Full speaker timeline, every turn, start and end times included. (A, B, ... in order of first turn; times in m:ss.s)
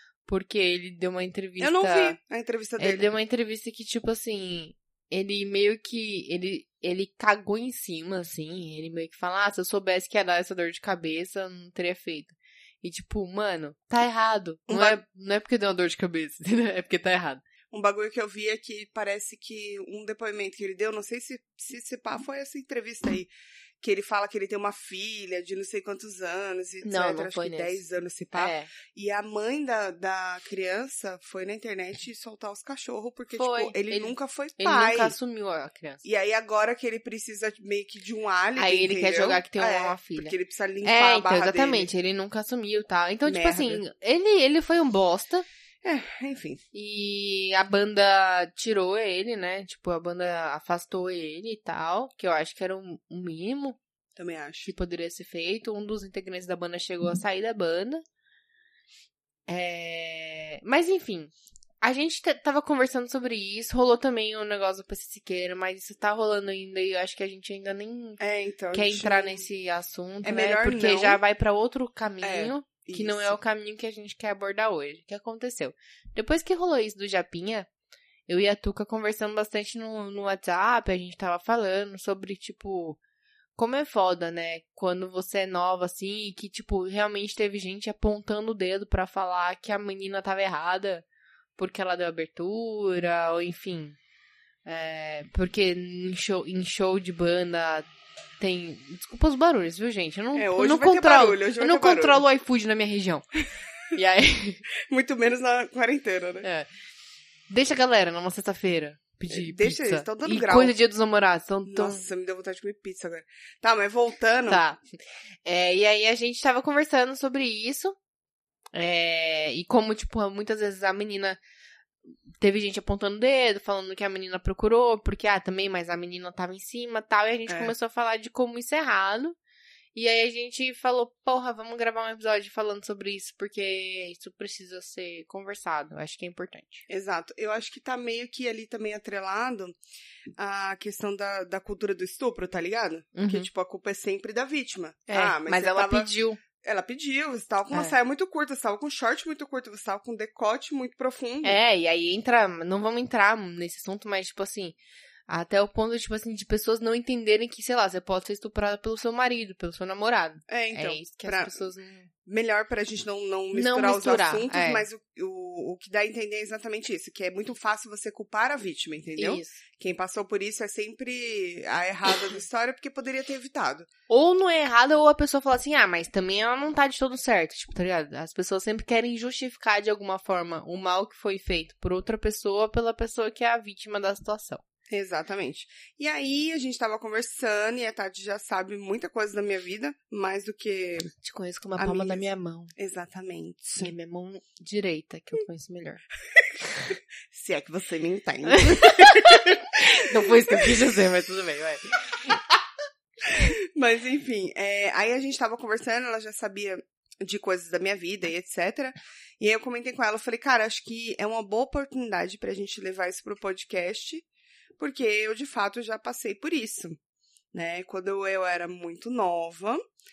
0:00.2-0:02.2 A
0:01.6-0:03.1 B
0:02.8-0:17.4 A
0:14.7-0:15.0 B
0:17.7-0:35.2 B
0:26.8-0:27.8 A
0:28.3-0:28.7 A
0:33.4-0:36.0 A
0:36.0-0:41.9 B
0:38.6-0:45.4 A
0:43.2-0:43.8 B
0:45.8-0:46.6 B
0:46.7-0:53.8 A
0:54.2-0:54.7 B
0:54.6-0:58.0 A
0:59.5-1:08.2 A
1:08.2-1:09.4 B
1:08.7-1:17.7 A
1:10.2-1:11.2 B
1:12.2-1:13.4 B
1:18.3-1:23.0 A
1:23.6-1:31.0 A
1:31.6-1:34.0 A
1:34.6-1:37.9 A
1:38.4-1:43.2 A
1:40.3-1:42.2 B
1:43.9-1:44.6 A
1:44.9-1:46.4 B
1:46.4-1:46.7 A
1:47.5-1:52.0 A
1:49.3-1:50.7 B
1:51.6-1:54.6 B
1:54.5-1:54.8 A
1:55.4-1:58.0 A
1:58.7-2:01.4 A
2:02.4-2:09.4 A
2:07.5-2:07.7 B
2:09.9-2:16.9 A
2:16.9-2:19.8 B
2:20.4-2:31.6 B
2:23.1-2:23.5 A
2:25.1-2:26.4 A
2:27.7-2:28.0 A
2:31.4-2:34.8 A
2:35.3-2:42.1 A
2:40.5-2:41.6 B
2:42.2-2:53.9 B
2:43.5-2:44.9 A
2:49.2-2:49.6 A
2:54.1-3:04.6 A
3:04.9-3:11.1 B
3:11.2-3:12.7 A
3:11.8-3:12.2 B
3:12.8-3:13.9 B
3:13.8-3:16.0 A
3:17.3-3:20.7 B
3:18.5-3:22.4 A
3:23.3-3:34.2 B
3:34.8-3:37.0 B
3:37.5-3:39.8 B